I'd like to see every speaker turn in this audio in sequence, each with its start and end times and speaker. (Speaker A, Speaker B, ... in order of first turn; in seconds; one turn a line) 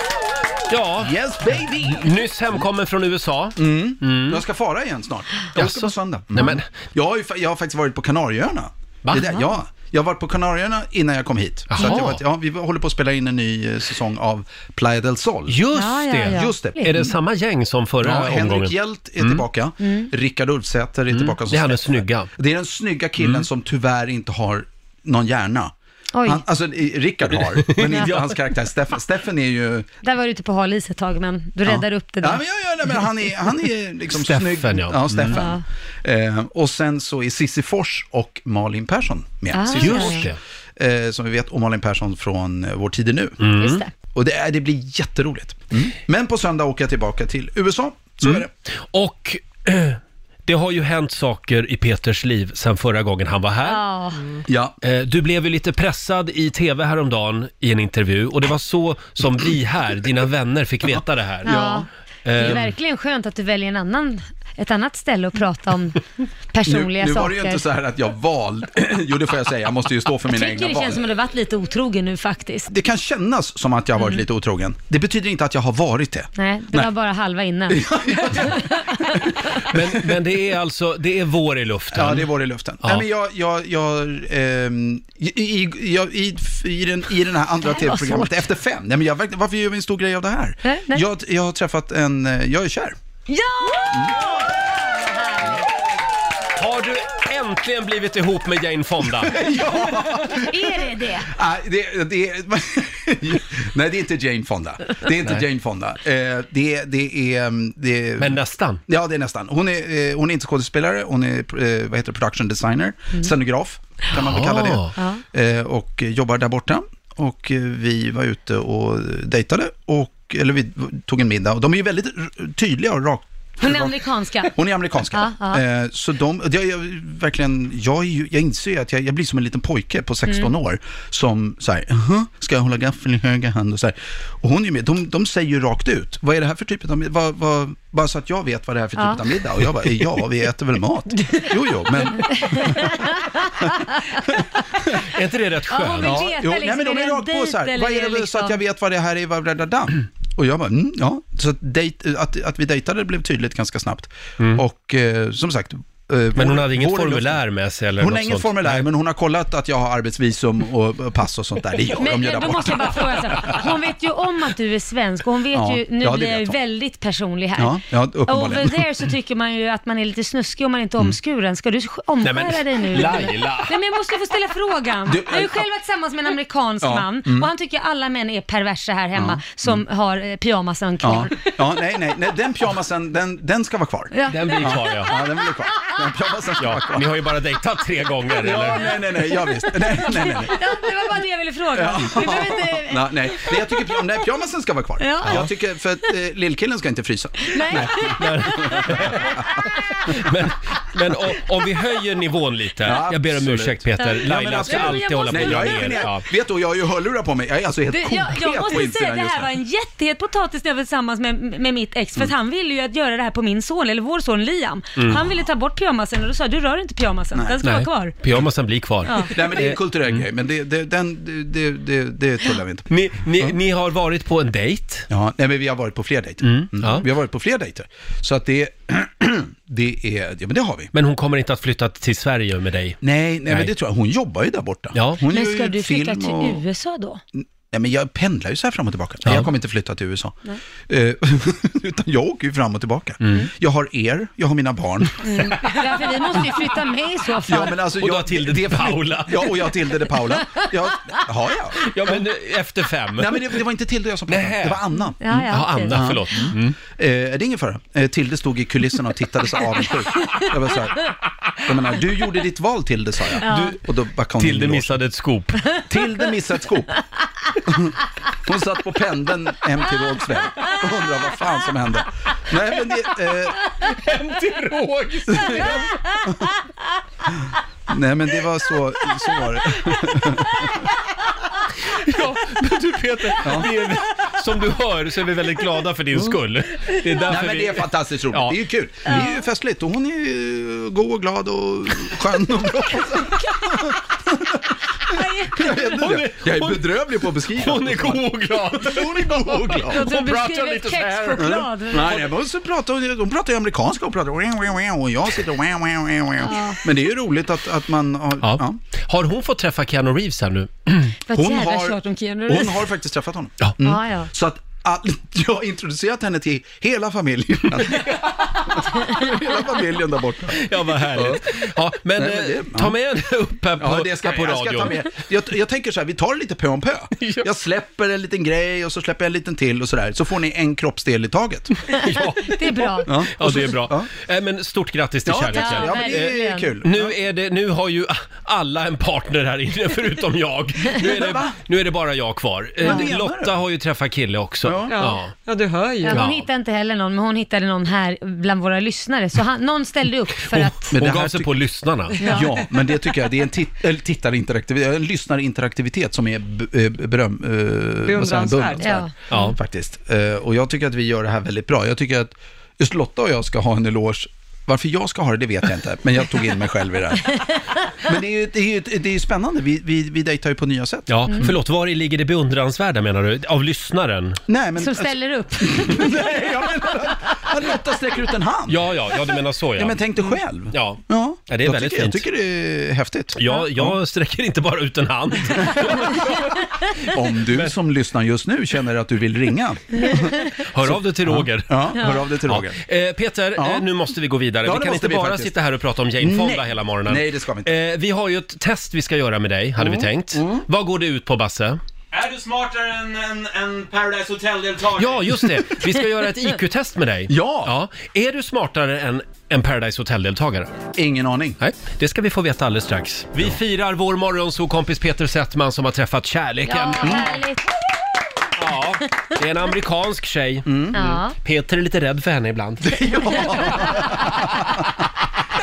Speaker A: 0.7-1.1
Speaker B: 1.0-2.6
Speaker A: 1.9-4.4
Speaker B: 3.6-15.6
Speaker A: 5.5-6.7
Speaker A: 9.1-9.3
Speaker A: 11.7-12.2
Speaker A: 15.5-19.4
Speaker C: 15.7-16.9
Speaker B: 16.2-17.1
Speaker B: 18.0-29.9
Speaker C: 19.8-20.1
Speaker A: 21.1-22.3
Speaker A: 23.2-23.4
Speaker C: 26.1-26.4
Speaker A: 27.6-28.2
Speaker C: 30.0-32.4
Speaker B: 31.7-43.4
Speaker A: 34.1-35.4
Speaker C: 35.3-35.6
Speaker C: 39.5-40.2
Speaker A: 39.8-40.4
Speaker A: 43.4-43.8
Speaker C: 43.6-43.9
Speaker B: 44.1-48.5
Speaker A: 48.2-53.8
Speaker C: 53.6-54.3
Speaker B: 54.5-54.8
Speaker A: 54.8-61.6
Speaker B: 61.5-61.9
Speaker C: 61.5-67.6
Speaker A: 62.2-62.7
Speaker B: 66.7-71.0
Speaker C: 70.3-72.7
Speaker B: 72.7-76.9
Speaker C: 76.4-79.2
Speaker B: 77.7-79.8
Speaker A: 79.7-82.3
Speaker B: 81.9-93.0
Speaker C: 87.7-88.3
Speaker C: 90.6-91.1
Speaker C: 93.3-95.6
Speaker B: 93.9-94.3
Speaker A: 96.6-99.4
Speaker B: 99.2-143.8
Speaker C: 100.3-101.3
Speaker A: 108.2-108.8
Speaker A: 114.2-115.0
Speaker C: 115.0-115.2
Speaker C: 123.6-124.6
Speaker C: 125.1-125.6
Speaker C: 139.0-139.2
Speaker C: 142.5-143.2
Speaker A: 145.0-146.2
Speaker C: 145.7-148.6
Speaker B: 146.0-157.4
Speaker A: 156.4-158.9
Speaker B: 158.0-163.6
Speaker C: 162.0-181.5
Speaker B: 165.5-166.6
Speaker B: 167.6-168.9
Speaker A: 172.2-173.7
Speaker B: 175.1-175.7
Speaker B: 176.8-177.5
Speaker B: 179.2-179.8
Speaker B: 181.0-187.1
Speaker C: 184.1-184.9
Speaker A: 184.3-185.2
Speaker A: 186.6-188.9
Speaker B: 188.4-190.6
Speaker C: 190.0-194.0
Speaker B: 191.7-199.4
Speaker C: 195.0-195.4
Speaker C: 197.5-199.5
Speaker A: 198.0-199.4
Speaker A: 200.1-206.2
Speaker B: 202.8-209.5
Speaker C: 204.0-206.1
Speaker C: 207.9-218.2
Speaker A: 217.6-220.2
Speaker C: 219.1-219.3
Speaker B: 219.3-223.5
Speaker A: 222.9-225.1
Speaker B: 225.1-230.9
Speaker A: 226.4-227.1
Speaker A: 230.9-233.7
Speaker B: 233.0-236.6
Speaker A: 234.9-235.2
Speaker C: 235.3-237.2
Speaker B: 237.4-245.5
Speaker A: 243.2-243.5
Speaker C: 245.2-247.8
Speaker B: 247.5-252.3
Speaker A: 247.9-249.7
Speaker A: 251.8-253.5
Speaker B: 253.2-261.1
Speaker A: 254.3-254.8
Speaker C: 255.2-256.4
Speaker A: 255.5-256.8
Speaker B: 261.6-265.0
Speaker C: 263.4-263.8
Speaker A: 263.5-263.8
Speaker A: 264.4-265.6
Speaker B: 265.9-266.9
Speaker B: 267.7-273.6
Speaker A: 273.8-276.2
Speaker B: 275.3-276.4
Speaker B: 277.9-280.9
Speaker A: 281.8-288.6
Speaker B: 283.4-283.7
Speaker B: 287.3-300.1
Speaker C: 289.1-289.4
Speaker C: 295.1-295.6
Speaker A: 295.7-301.5
Speaker C: 299.9-302.3
Speaker B: 301.4-308.8
Speaker C: 306.4-306.8
Speaker A: 308.4-311.1
Speaker C: 311.3-312.9
Speaker B: 311.3-321.6
Speaker C: 313.8-314.3
Speaker A: 320.5-325.0
Speaker B: 322.1-322.9
Speaker B: 323.8-331.7
Speaker A: 327.2-327.5
Speaker A: 331.9-345.3
Speaker C: 332.5-333.1
Speaker B: 333.1-334.1
Speaker B: 335.2-337.2
Speaker C: 335.5-336.7
Speaker B: 341.0-341.6
Speaker B: 342.8-343.5
Speaker B: 344.6-345.0
Speaker D: 344.9-346.2
Speaker C: 346.1-350.9
Speaker A: 346.1-346.4
Speaker A: 350.5-352.2
Speaker B: 350.9-351.6
Speaker C: 352.2-352.5
Speaker B: 352.3-367.5
Speaker D: 358.1-359.0
Speaker C: 358.8-359.4
Speaker B: 368.0-371.5
Speaker A: 371.1-374.4
Speaker B: 374.5-378.8
Speaker C: 374.8-376.2
Speaker A: 378.7-380.0
Speaker B: 379.8-384.0
Speaker A: 380.7-382.2
Speaker A: 383.4-387.7
Speaker B: 385.6-386.2
Speaker B: 387.0-392.8
Speaker A: 390.7-401.8
Speaker B: 393.6-393.9
Speaker B: 394.6-395.6
Speaker B: 396.2-397.7
Speaker B: 399.8-400.6
Speaker E: 402.1-405.4
Speaker A: 405.0-410.7
Speaker B: 407.3-407.7
Speaker B: 410.9-411.6
Speaker A: 411.6-417.3
Speaker C: 416.6-417.7
Speaker B: 417.0-417.4
Speaker A: 418.6-424.1
Speaker B: 420.6-421.2
Speaker C: 420.9-421.4
Speaker B: 422.8-424.9